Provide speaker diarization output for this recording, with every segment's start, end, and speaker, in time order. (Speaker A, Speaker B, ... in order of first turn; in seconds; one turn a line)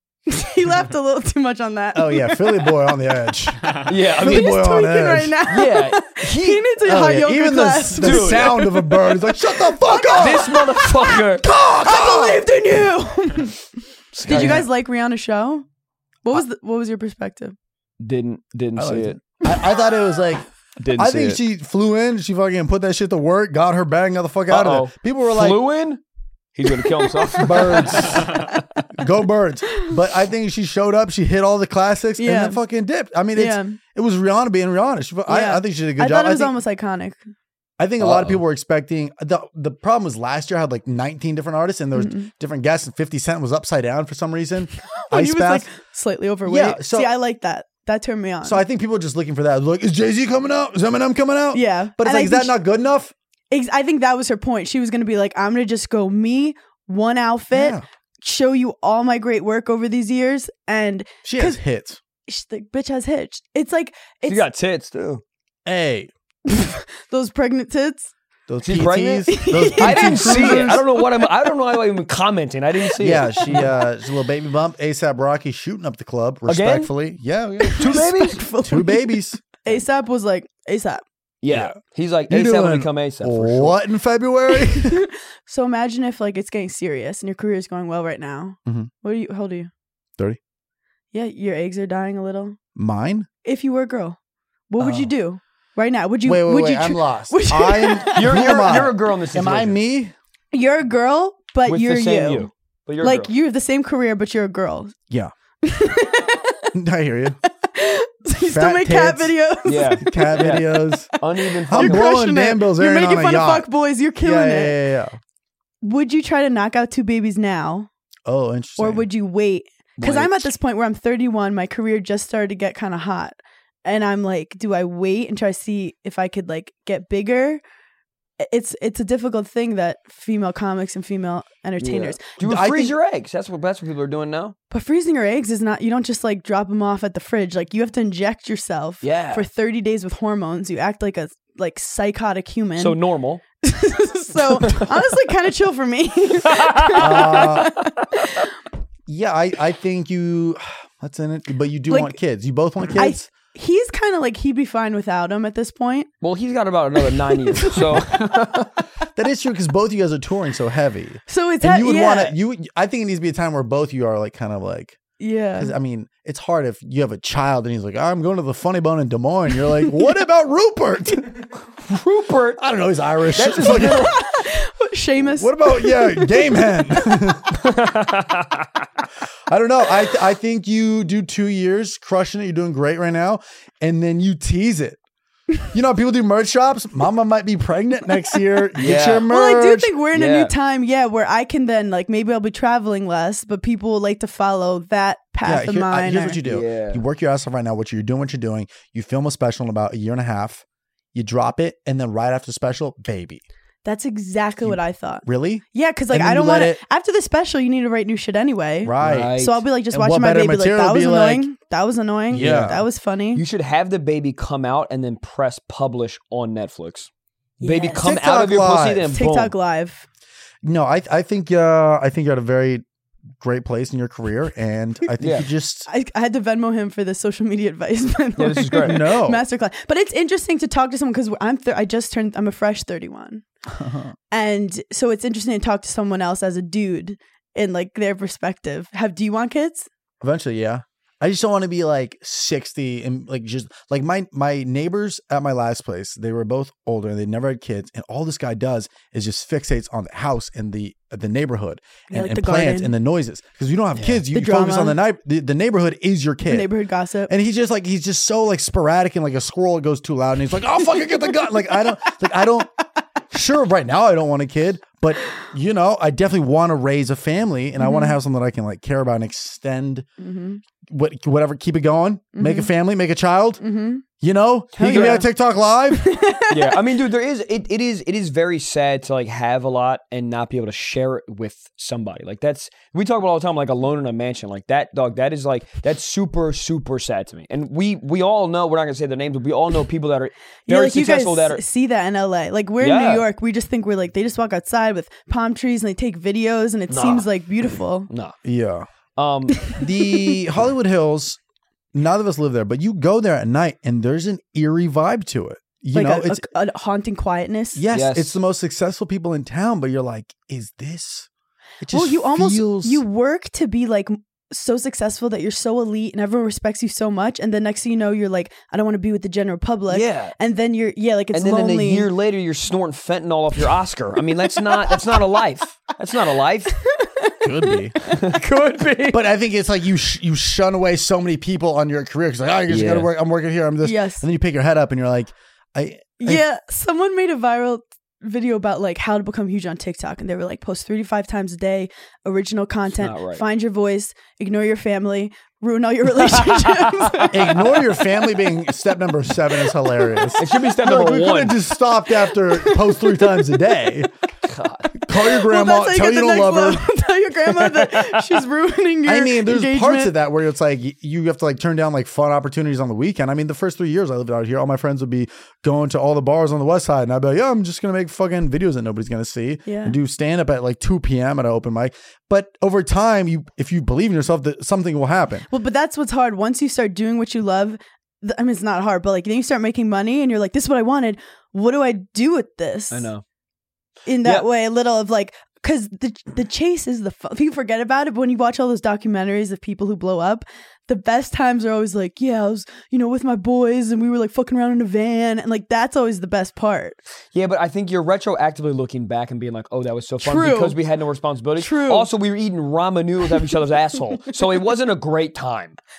Speaker A: 0.3-2.7
Speaker B: 1.9-5.4
Speaker C: 3.9-4.5
Speaker A: 4.2-13.7
Speaker C: 5.5-6.7
Speaker B: 6.8-10.6
Speaker C: 8.0-8.5
Speaker C: 10.1-11.4
Speaker B: 11.4-12.4
Speaker C: 14.1-14.7
Speaker B: 14.2-14.7
Speaker A: 14.2-15.6
Speaker A: 16.2-17.5
Speaker C: 18.0-19.2
Speaker B: 18.8-25.6
Speaker C: 20.8-21.4
Speaker C: 24.5-26.0
Speaker C: 26.5-28.5
Speaker A: 26.7-28.6
Speaker B: 27.4-28.3
Speaker B: 29.0-36.6
Speaker A: 32.2-32.6
Speaker A: 33.3-33.8
Speaker A: 35.3-37.2
Speaker B: 37.8-45.7
Speaker C: 38.0-38.4
Speaker A: 41.9-42.3
Speaker A: 44.9-48.6
Speaker B: 46.4-47.1
Speaker B: 48.4-53.1
Speaker A: 51.5-52.5
Speaker A: 53.5-61.6
Speaker B: 57.5-57.8
Speaker B: 61.2-62.0
Speaker A: 62.3-64.4
Speaker C: 64.3-65.2
Speaker B: 65.7-66.1
Speaker A: 66.5-68.1
Speaker B: 68.5-70.8
Speaker C: 68.6-73.7
Speaker A: 69.3-71.5
Speaker B: 73.0-79.4
Speaker C: 76.5-76.9
Speaker A: 77.6-81.0
Speaker C: 77.8-78.4
Speaker C: 81.4-83.8
Speaker B: 81.5-81.8
Speaker B: 82.3-85.0
Speaker A: 84.5-89.7
Speaker B: 88.7-88.9
Speaker A: 91.1-92.6
Speaker B: 92.8-93.3
Speaker A: 93.4-94.2
Speaker A: 94.7-98.8
Speaker B: 94.8-95.1
Speaker B: 96.2-100.1
Speaker C: 98.1-99.8
Speaker A: 100.5-102.5
Speaker C: 101.7-103.3
Speaker A: 103.0-104.9
Speaker A: 105.6-106.7
Speaker B: 106.7-107.4
Speaker A: 107.6-110.4
Speaker B: 108.4-109.3
Speaker C: 109.7-112.1
Speaker B: 110.0-111.1
Speaker B: 111.7-113.7
Speaker A: 111.7-114.8
Speaker B: 114.2-115.2
Speaker A: 115.8-117.9
Speaker B: 118.2-119.0
Speaker A: 118.8-127.6
Speaker C: 120.0-120.5
Speaker A: 128.4-132.3
Speaker C: 131.8-134.5
Speaker B: 132.4-132.9
Speaker A: 134.7-143.0
Speaker C: 139.0-139.4
Speaker C: 142.8-143.4
Speaker A: 143.6-148.5
Speaker C: 144.6-145.0
Speaker C: 146.4-147.6
Speaker B: 147.0-147.7
Speaker B: 149.1-153.3
Speaker A: 151.9-152.2
Speaker A: 152.9-156.1
Speaker C: 156.2-158.7
Speaker A: 157.4-158.2
Speaker B: 159.2-165.0
Speaker A: 161.3-162.3
Speaker A: 165.2-165.7
Speaker B: 165.6-171.5
Speaker C: 171.9-172.6
Speaker B: 172.6-174.1
Speaker C: 173.3-174.2
Speaker A: 173.7-177.3
Speaker B: 175.3-177.6
Speaker C: 177.5-178.7
Speaker B: 179.5-185.0
Speaker B: 185.7-189.9
Speaker C: 188.8-189.3
Speaker A: 189.3-196.4
Speaker C: 190.1-190.5
Speaker B: 195.4-200.6
Speaker C: 196.4-197.0
Speaker B: 201.1-203.4
Speaker A: 203.8-213.4
Speaker B: 204.6-206.8
Speaker B: 208.8-209.4
Speaker C: 209.0-209.6
Speaker B: 209.9-211.5
Speaker B: 212.3-212.8
Speaker C: 212.3-212.8
Speaker C: 213.3-217.1
Speaker A: 217.6-218.1
Speaker C: 217.6-219.5
Speaker B: 218.0-219.1
Speaker A: 219.1-220.1
Speaker B: 220.6-222.8
Speaker B: 223.4-225.9
Speaker C: 225.2-225.5
Speaker A: 225.9-233.4
Speaker C: 228.4-229.0
Speaker B: 228.8-229.4
Speaker B: 233.7-234.1
Speaker A: 234.3-239.9
Speaker B: 240.2-256.7
Speaker A: 252.1-252.9
Speaker C: 253.9-254.2
Speaker A: 254.3-255.0
Speaker A: 256.4-257.3
Speaker B: 257.3-262.7
Speaker B: 263.3-270.1
Speaker A: 267.8-268.1
Speaker A: 270.2-270.6
Speaker B: 270.9-273.6
Speaker A: 272.3-272.7
Speaker A: 273.6-274.0
Speaker B: 274.2-276.1
Speaker A: 274.8-275.3
Speaker C: 274.8-275.2
Speaker A: 275.9-276.8
Speaker C: 276.5-291.6
Speaker A: 290.7-298.1
Speaker C: 292.8-293.2
Speaker C: 296.9-297.3
Speaker C: 298.1-298.4
Speaker B: 298.4-298.9
Speaker C: 299.1-299.7
Speaker A: 299.6-300.1
Speaker B: 299.7-301.4
Speaker B: 301.9-306.4
Speaker A: 305.9-307.8
Speaker B: 307.7-311.3
Speaker C: 307.9-308.4
Speaker B: 311.8-313.0
Speaker A: 311.9-322.1
Speaker C: 319.9-320.4
Speaker C: 321.3-326.7
Speaker A: 324.5-325.2
Speaker A: 326.8-328.2
Speaker B: 327.4-328.0
Speaker C: 328.0-329.2
Speaker B: 329.1-336.4
Speaker C: 332.7-333.1
Speaker A: 333.8-334.2
Speaker A: 336.2-347.8
Speaker C: 342.9-343.4
Speaker C: 346.4-347.1
Speaker B: 347.3-354.1
Speaker A: 349.9-350.4
Speaker C: 350.4-351.6
Speaker A: 352.2-353.7
Speaker C: 354.4-354.9
Speaker B: 355.0-356.8
Speaker A: 355.1-360.1
Speaker C: 357.5-358.4
Speaker B: 359.1-375.5
Speaker A: 369.6-370.0
Speaker A: 375.5-383.1
Speaker C: 382.9-383.2
Speaker A: 384.1-397.0
Speaker C: 397.3-405.8
Speaker A: 400.2-400.8
Speaker A: 401.6-402.1